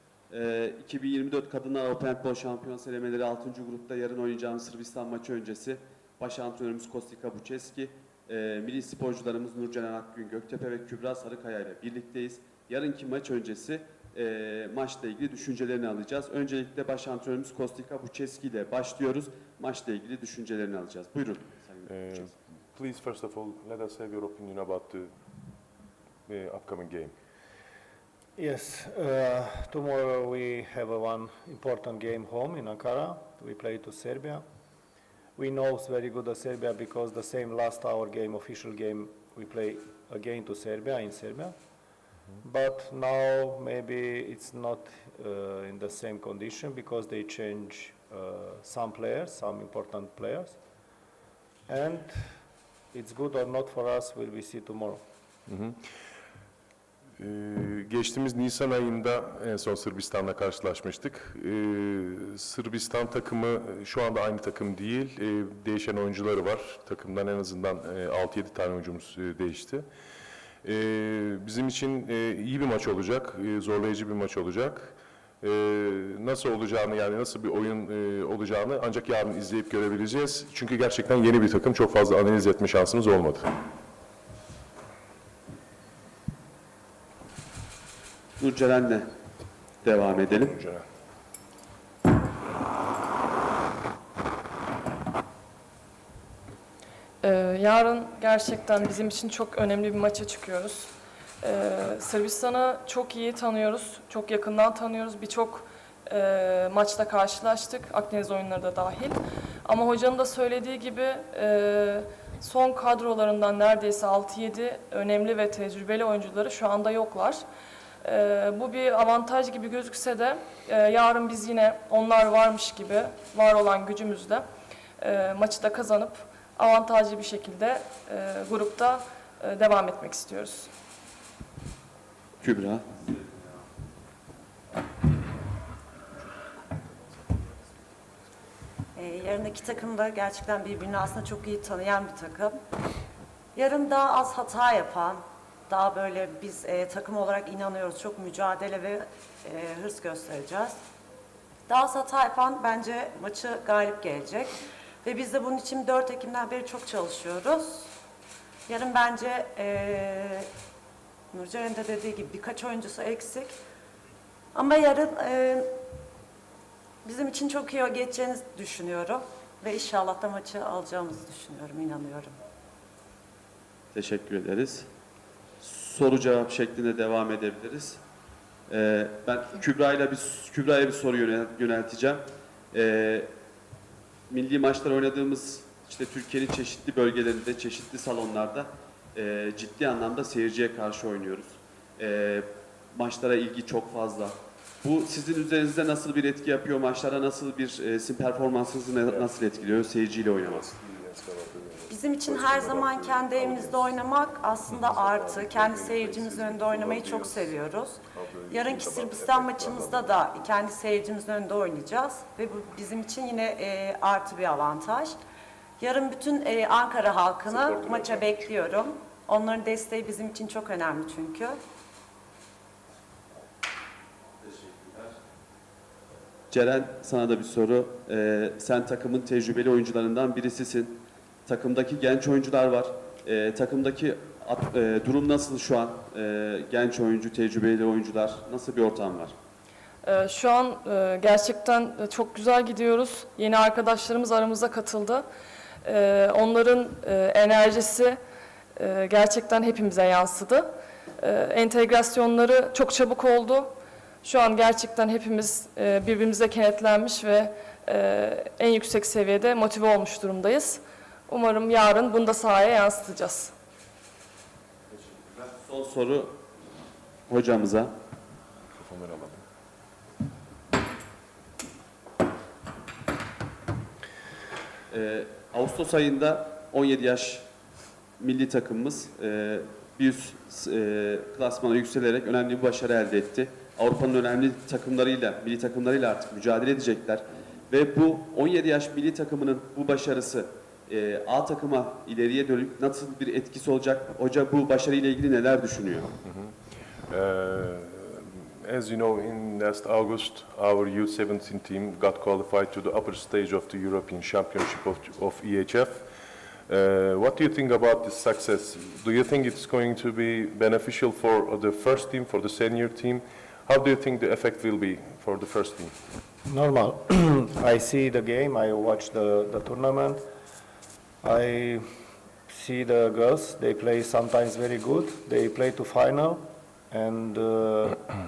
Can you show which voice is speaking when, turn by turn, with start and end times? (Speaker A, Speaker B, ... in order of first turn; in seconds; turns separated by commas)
Speaker A: 0.3-22.3, Speaker B: 21.9-25.1, Speaker B: 26.3-27.1, Speaker C: 28.4-34.4, Speaker C: 35.4-41.5, Speaker C: 42.4-50.6, Speaker C: 51.7-52.2, Speaker C: 52.9-55.0, Speaker B: 55.5-55.8, Speaker B: 57.2-69.8, Speaker B: 70.6-83.5, Speaker A: 88.4-89.1, Speaker A: 89.8-90.6, Speaker B: 90.6-90.8, Speaker D: 97.2-100.9, Speaker D: 101.4-117.4, Speaker D: 118.0-124.5, Speaker D: 125.0-130.7, Speaker A: 132.4-133.5, Speaker E: 139.0-142.6, Speaker E: 143.6-150.8, Speaker E: 151.7-157.9, Speaker E: 158.7-160.5, Speaker E: 161.3-163.6, Speaker E: 164.5-165.7, Speaker E: 167.0-172.3, Speaker A: 173.9-174.9, Speaker A: 175.6-178.0, Speaker A: 178.7-183.3, Speaker A: 184.3-200.7, Speaker B: 199.1-199.4, Speaker B: 200.4-203.9, Speaker E: 201.9-215.2, Speaker B: 204.7-207.5, Speaker B: 208.1-210.2, Speaker E: 215.8-221.6, Speaker B: 217.5-218.5, Speaker A: 224.4-225.1, Speaker A: 226.5-239.3, Speaker D: 240.0-245.2, Speaker D: 245.8-248.2, Speaker D: 248.8-253.7, Speaker D: 254.2-263.5, Speaker A: 264.9-266.3, Speaker A: 267.3-267.9, Speaker B: 268.8-269.4, Speaker A: 274.9-277.5, Speaker A: 278.2-296.1, Speaker B: 296.2-296.5, Speaker B: 297.1-306.1, Speaker B: 306.7-315.9, Speaker C: 316.5-320.2, Speaker C: 321.2-321.8, Speaker C: 322.5-328.0